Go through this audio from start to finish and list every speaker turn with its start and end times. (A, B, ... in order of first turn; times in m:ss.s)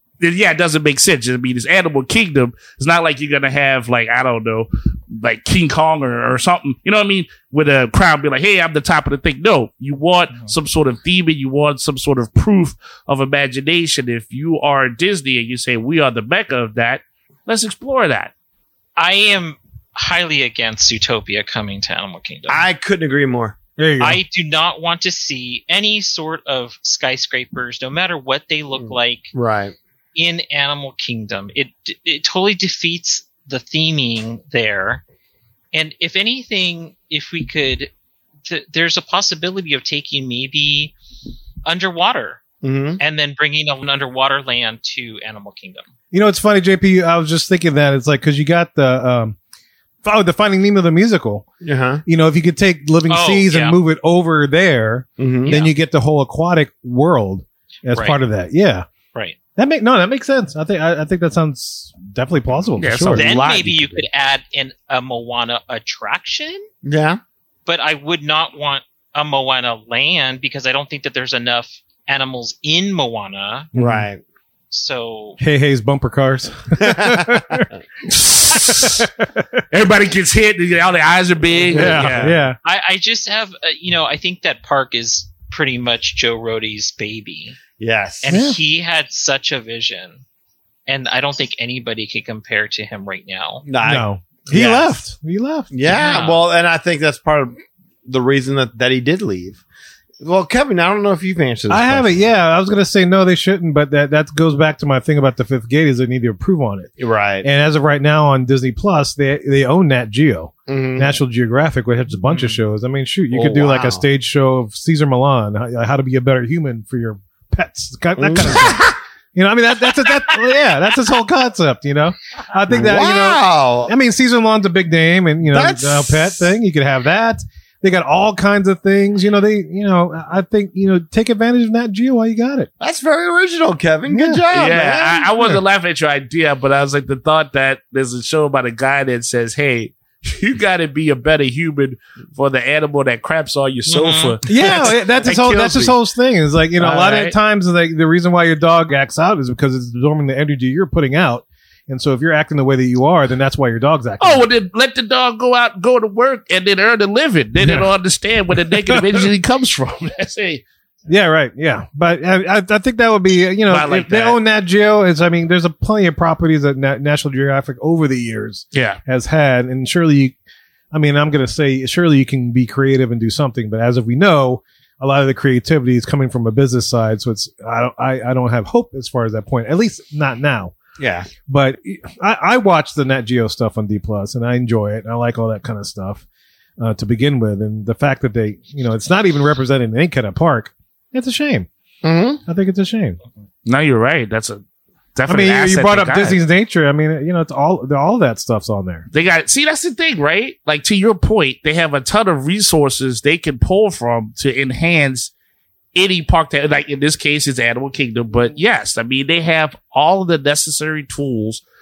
0:00.2-0:18.3 A
0:19.0-0:22.6 B
0:22.5-0:23.6 C
0:23.8-0:24.2 D
0:24.0-0:29.3 B
0:28.8-0:29.7 C
0:30.1-0:35.0 B
0:35.7-0:37.9 B
0:38.4-0:40.9 B
0:41.6-0:42.4 B
0:42.6-0:43.0 C
0:43.0-0:45.9 B
0:46.1-0:49.4 D
0:50.0-0:51.4 D
0:51.6-0:52.0 C
0:52.0-0:58.9 D
0:53.1-0:53.8 B
0:55.2-0:55.6 C
0:55.4-0:55.7 B
0:57.9-0:58.2 B
0:59.6-1:03.2 D
1:02.8-1:04.0 A
1:03.1-1:06.7 B
1:06.8-1:07.2 C
1:07.6-1:13.7 B
1:13.7-1:14.1 D
1:13.8-1:14.2 C
1:14.7-1:15.4 B
1:15.4-1:17.6 D
1:16.8-1:17.8 C
1:18.1-1:19.1 A
1:18.5-1:19.6 D
1:19.7-1:22.3 A
1:21.7-1:22.6 D
1:21.7-1:22.1 C
1:22.6-1:27.6 B
1:27.8-1:28.3 C
1:28.2-1:30.2 B
1:28.3-1:28.6 D
1:30.9-1:33.6 B
1:33.6-1:35.0 C
1:33.8-1:35.7 D
1:35.7-1:39.6 C
1:35.8-1:36.4 B
1:40.2-1:42.2 C
1:41.7-2:12.7 D
1:47.0-1:47.5 C
1:50.7-1:51.1 C
1:53.3-1:54.0 C
1:58.2-1:58.9 C
2:02.7-2:03.9 C
2:05.5-2:06.5 C
2:12.8-2:15.5 C
2:14.1-2:14.4 D
2:14.5-2:26.0 A
2:23.9-2:24.4 B
2:24.4-2:34.5 D
2:26.8-2:27.3 A
2:34.2-2:40.6 A
2:37.6-2:37.9 D
2:38.5-2:39.3 D
2:41.1-2:50.4 D
2:43.7-2:44.4 A
2:48.7-2:49.0 A
2:50.9-3:00.7 D
3:01.0-3:01.3 C
3:01.4-3:06.2 D
3:06.8-3:11.7 D
3:12.0-3:12.4 C
3:12.4-3:13.2 D
3:13.6-3:14.6 A
3:15.2-3:16.4 A
3:15.3-3:19.0 D
3:19.1-3:25.3 A
3:25.9-3:31.6 A